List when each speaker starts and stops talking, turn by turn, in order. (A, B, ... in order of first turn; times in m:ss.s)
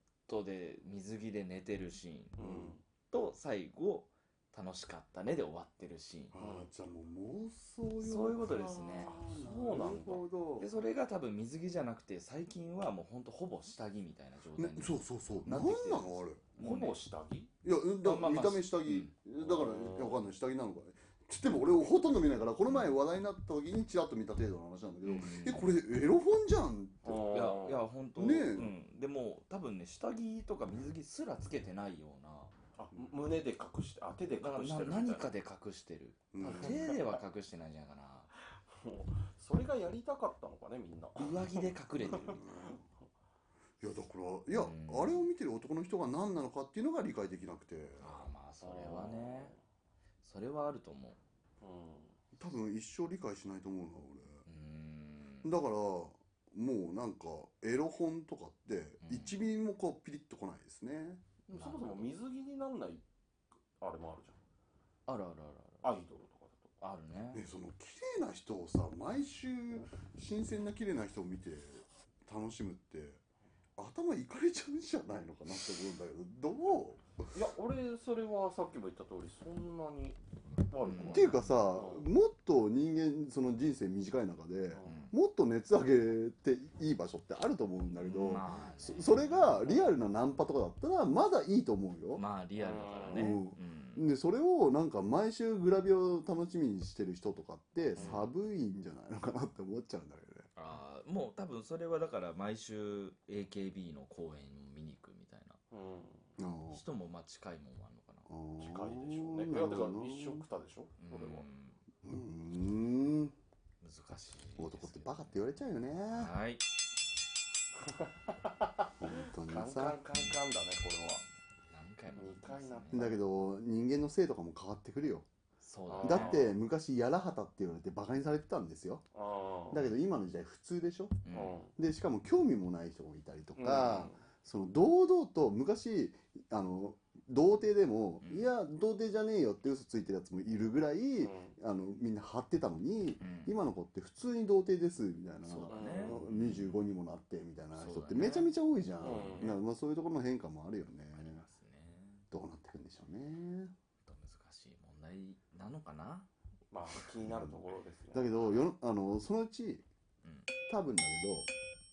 0:00.3-0:02.6 A
0:02.4-0:02.8 B
0:02.4-0:02.7 C
0:03.1-0:06.4 A
0:06.3-0:10.7 C
0:06.4-0:06.7 B
0:08.0-0:17.0 A
0:08.5-0:10.2 B
0:14.6-0:16.4 C
0:16.6-0:17.5 B
0:17.6-0:27.2 C
0:18.0-0:19.1 A
0:19.4-0:20.2 B
0:25.0-0:25.7 A
0:27.0-0:27.8 B
0:27.3-0:32.5 A
0:28.2-0:28.7 C
0:32.8-0:35.3 B
0:34.4-0:38.3 A
0:36.3-0:37.0 C
0:36.4-0:37.2 B
0:38.7-0:42.4 B
0:41.2-0:42.5 A
0:42.2-0:42.8 C
0:43.8-0:48.2 C
0:44.5-0:45.3 A
0:48.0-0:49.6 A
0:48.6-0:49.6 B
0:50.2-0:51.2 A
0:51.6-0:52.2 B
0:52.4-0:54.4 C
0:54.5-0:55.5 A
0:55.4-1:01.2 C
0:59.0-0:59.4 A
1:01.5-1:03.0 B
1:01.5-1:02.1 A
1:03.8-1:04.4 B
1:05.1-1:05.9 A
1:05.8-1:06.7 B
1:06.8-1:07.4 A
1:07.3-1:13.2 C
1:13.8-1:17.3 C
1:17.3-1:22.1 B
1:20.8-1:21.6 A
1:21.1-1:32.2 C
1:24.7-1:25.0 B
1:24.8-1:25.1 A
1:28.0-1:29.8 A
1:32.1-1:34.1 A
1:32.6-1:33.4 B
1:33.1-1:40.5 C
1:37.9-1:38.3 A
1:38.0-1:38.3 B
1:40.6-1:45.6 A
1:45.7-1:46.3 B
1:46.4-1:46.8 C
1:46.7-1:48.3 A
1:48.3-1:50.4 C
1:48.6-1:51.5 B
1:51.0-1:51.8 A
1:52.0-1:53.4 C
1:53.8-1:55.4 A
1:54.6-1:56.3 C
1:56.1-1:56.6 A
1:57.8-2:01.2 B
1:59.0-2:00.0 C
2:01.2-2:03.1 A
2:02.2-2:03.1 B
2:02.9-2:05.3 C
2:05.6-2:06.5 A
2:05.9-2:06.5 B
2:06.0-2:09.0 C
2:09.1-2:09.8 B
2:09.7-2:11.2 C
2:11.2-2:11.6 A
2:11.3-2:11.7 B
2:11.8-2:31.4 C
2:13.6-2:14.2 B
2:18.2-2:18.5 A
2:21.2-2:21.6 B
2:23.2-2:23.6 A
2:25.4-2:26.9 A
2:25.7-2:26.2 B
2:27.8-2:29.6 A
2:29.0-2:29.6 B
2:31.2-2:32.2 A
2:32.3-2:33.7 C
2:34.1-2:36.3 A
2:36.7-2:38.3 B
2:37.3-2:37.6 C
2:38.1-2:39.8 C
2:40.2-2:40.5 A
2:40.7-2:41.5 C